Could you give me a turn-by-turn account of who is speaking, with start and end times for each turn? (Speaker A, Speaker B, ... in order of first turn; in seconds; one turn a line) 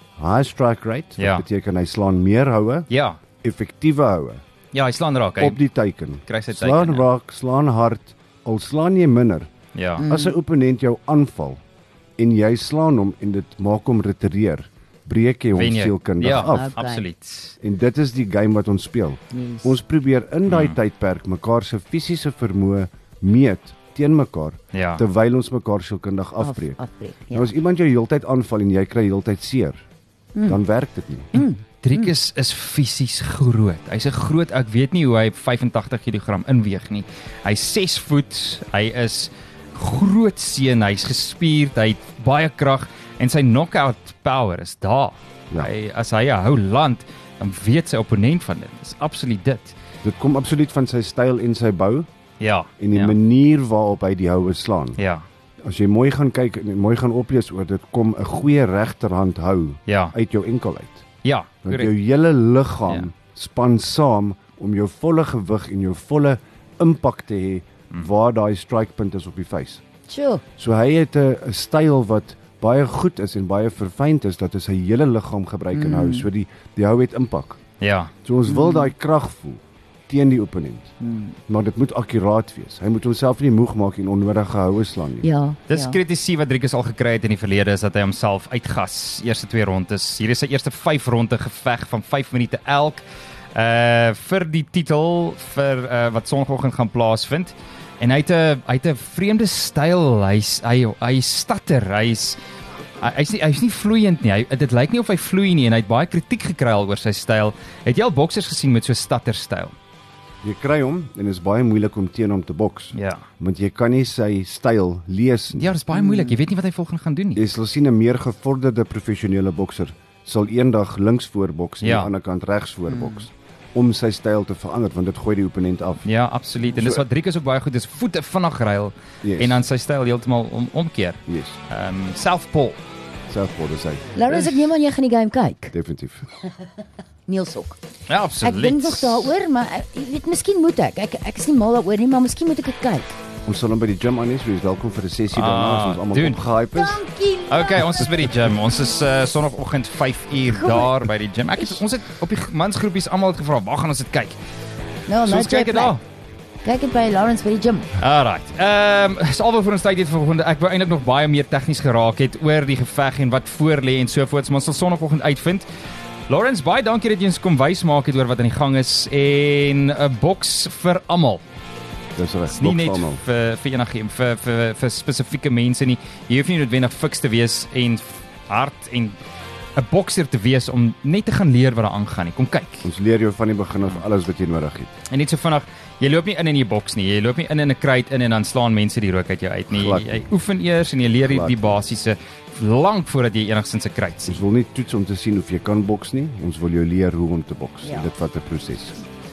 Speaker A: 0.2-2.9
Speaker B: 1.2-1.4
Speaker B: 2.9-3.2
Speaker A: 3.4-4.4
Speaker B: 4.7-5.6
Speaker A: 5.4-9.5
Speaker B: 6.3-7.0
Speaker B: 9.8-10.1
Speaker C: 10.0-10.4
Speaker A: 10.1-11.6
Speaker A: 12.2-16.7
Speaker B: 15.5-17.5
Speaker C: 16.3-17.1
Speaker A: 17.6-26.8
Speaker C: 19.3-19.8
Speaker B: 20.5-20.8
Speaker B: 24.7-25.0
Speaker C: 26.4-27.5
Speaker A: 27.3-29.8
Speaker C: 30.4-30.6
Speaker A: 30.4-31.3
Speaker B: 31.3-49.8
Speaker C: 31.4-32.1
Speaker A: 50.0-52.1
Speaker B: 52.4-53.1
Speaker A: 52.8-55.0
Speaker B: 55.0-55.2
Speaker A: 55.6-61.1
Speaker B: 59.9-60.1
Speaker B: 61.2-61.9
Speaker A: 61.6-69.8
Speaker C: 70.1-70.4
Speaker A: 70.6-77.6
Speaker C: 75.7-76.3
Speaker B: 77.8-78.1
Speaker A: 78.2-80.9
Speaker C: 78.5-78.9
Speaker C: 81.0-81.4
Speaker A: 81.5-85.3
Speaker C: 85.2-86.0
Speaker B: 85.7-102.4
Speaker B: 103.0-109.8
Speaker A: 110.4-115.7
Speaker B: 113.0-113.2
Speaker B: 115.5-117.4
Speaker C: 115.9-116.3
Speaker A: 117.3-126.1
Speaker B: 121.8-122.1
Speaker C: 122.9-123.2
Speaker B: 126.0-132.8
Speaker A: 126.7-127.0
Speaker A: 129.2-129.6
Speaker A: 131.3-131.6
Speaker A: 133.3-134.1
Speaker C: 134.2-135.7
Speaker B: 134.3-134.6
Speaker A: 135.7-136.3
Speaker C: 137.3-137.8
Speaker B: 138.1-139.3
Speaker C: 138.4-143.2
Speaker A: 143.5-147.0
Speaker B: 145.3-146.5
Speaker C: 146.8-148.3
Speaker B: 147.5-154.4
Speaker C: 150.5-151.0
Speaker C: 155.1-156.0
Speaker B: 155.2-156.0
Speaker C: 156.6-157.9
Speaker B: 158.0-165.7
Speaker B: 166.3-171.4
Speaker A: 172.2-173.2
Speaker B: 172.5-179.2
Speaker B: 179.8-182.9
Speaker A: 182.8-184.9
Speaker B: 185.1-194.4
Speaker A: 189.7-190.3
Speaker A: 191.3-191.7
Speaker A: 194.3-199.0
Speaker C: 197.8-198.1